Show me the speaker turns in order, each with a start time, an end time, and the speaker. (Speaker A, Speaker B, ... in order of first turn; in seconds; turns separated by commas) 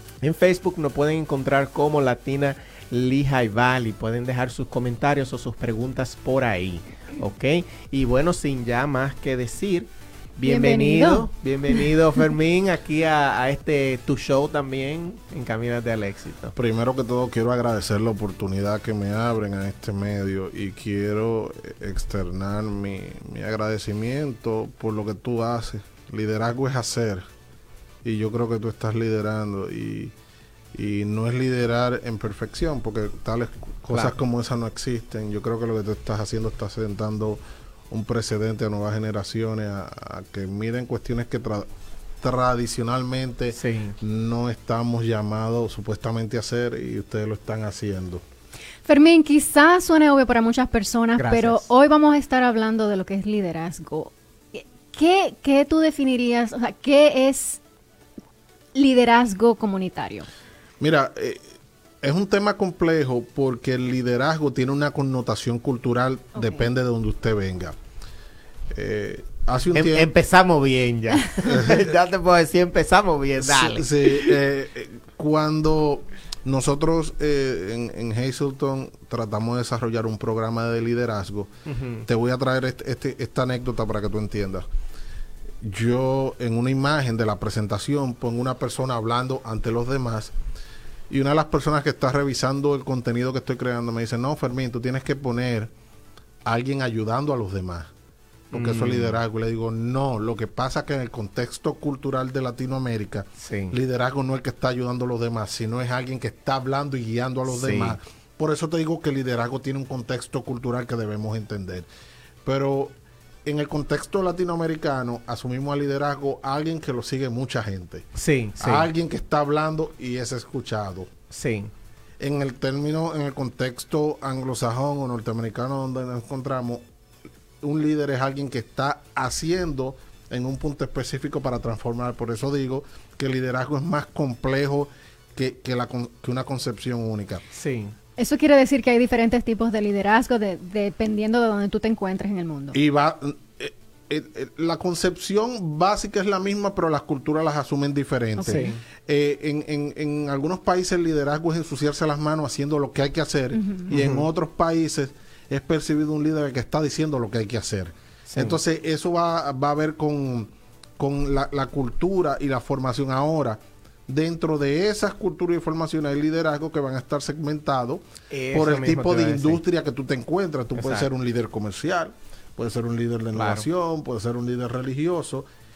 Speaker A: 0.2-16.5, Speaker B: 10.4-12.2, Speaker C: 16.6-27.2, Speaker C: 28.0-30.1, Speaker C: 30.7-41.7, Speaker A: 33.9-34.1, Speaker C: 42.2-48.2, Speaker A: 43.5-44.0, Speaker B: 48.9-57.6, Speaker A: 51.2-51.7, Speaker B: 58.8-60.3, Speaker C: 60.8-67.8, Speaker B: 66.4-66.6, Speaker C: 68.7-70.1, Speaker A: 69.7-74.3, Speaker C: 71.4-71.9, Speaker C: 73.4-81.5, Speaker A: 81.7-82.1, Speaker C: 82.0-84.7, Speaker C: 85.6-90.3, Speaker C: 91.1-95.7, Speaker C: 96.5-97.9, Speaker C: 98.5-111.9, Speaker A: 98.5-99.2, Speaker A: 103.4-103.8, Speaker A: 107.5-108.0, Speaker C: 112.4-118.1, Speaker A: 118.1-118.9, Speaker C: 118.6-121.1, Speaker A: 121.3-121.7, Speaker C: 122.2-126.8, Speaker C: 127.6-137.4, Speaker A: 137.5-137.9, Speaker B: 138.2-142.8, Speaker C: 142.7-175.5, Speaker A: 148.4-148.8, Speaker B: 148.4-148.7, Speaker A: 153.9-154.2, Speaker A: 158.3-158.6, Speaker A: 168.3-169.6, Speaker A: 170.8-171.1, Speaker A: 173.3-173.7